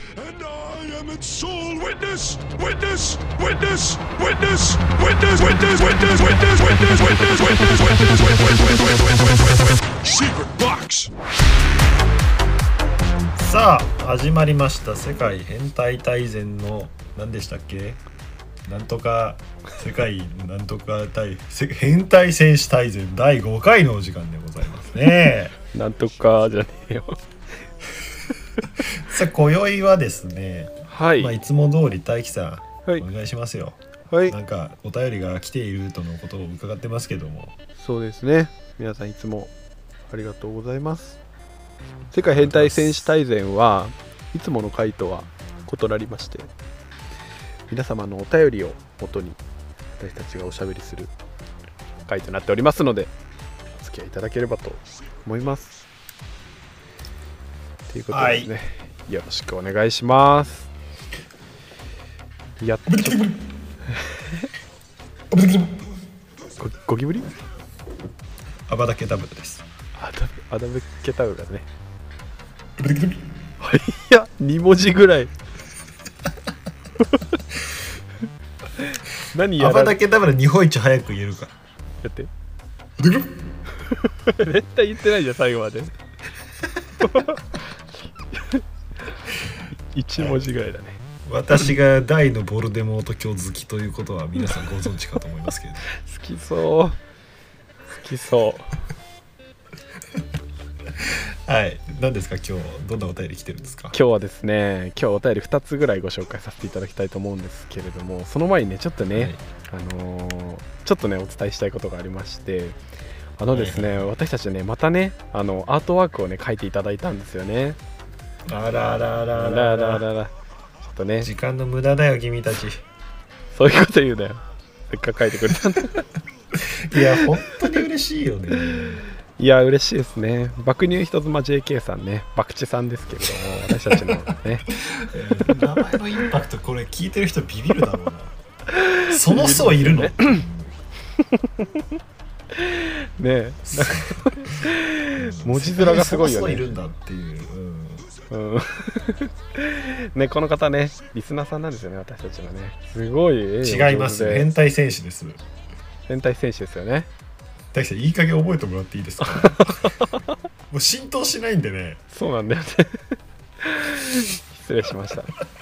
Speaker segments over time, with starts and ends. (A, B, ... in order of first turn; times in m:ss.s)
0:00.1-0:11.1 A
0:13.4-0:18.0 B
0:18.7-0:25.6 B
0:25.7-0:27.2 C
0:28.9-0:37.6 B
0:30.9-0:31.4 C
0:34.1-0:34.4 C
0:37.8-0:39.5 C
0:40.1-0:41.2 C
0:42.1-0:46.5 C
0:42.3-0:43.0 B
0:47.7-0:49.4 C
0:50.0-0:51.1 C
0:52.1-0:53.1 C
0:53.8-0:55.8 C
0:57.9-1:00.7 C
0:58.1-0:58.5 B
1:02.6-1:03.3 C
1:02.9-1:03.4 B
1:03.9-1:04.5 C
1:05.3-1:05.8 B
1:06.6-1:07.4 C
1:08.7-1:09.6 B
1:10.0-1:11.7 C
1:12.8-1:13.2 B
1:13.6-1:15.3 C
1:17.1-1:17.3 C
1:18.8-1:20.0 C
1:19.6-1:21.5 B
1:22.0-1:22.3 C
1:23.0-1:23.3 B
1:23.8-1:25.9 C
1:27.0-1:27.6 C
1:28.3-1:28.6 C
1:29.7-1:31.0 C
1:30.2-1:30.5 B
1:31.2-1:35.9 B
1:36.0-1:37.0 C
1:37.9-1:38.8 C
1:41.0-1:44.0 B
1:43.9-1:52.8 C
1:49.1-1:49.4 B
1:53.4-1:57.8 C
1:53.5-1:54.1 B
1:58.5-2:00.0 B
1:59.4-2:01.3 C
2:01.2-2:02.8 B
2:03.5-2:06.0 C
2:06.6-2:09.0 B
2:07.0-2:07.2 C
2:09.4-2:14.7 C
2:13.9-2:14.2 B
2:14.7-2:18.4 B
2:18.7-2:20.4 C
2:19.1-2:20.7 B
2:21.2-2:21.9 C
2:22.5-2:26.7 C
2:23.7-2:28.1 B
2:28.3-2:34.5 C
2:33.6-2:35.4 B
2:36.1-2:37.1 C
2:37.7-2:40.0 B
2:39.3-2:40.3 C
2:40.7-2:42.0 B
2:42.1-2:45.4 C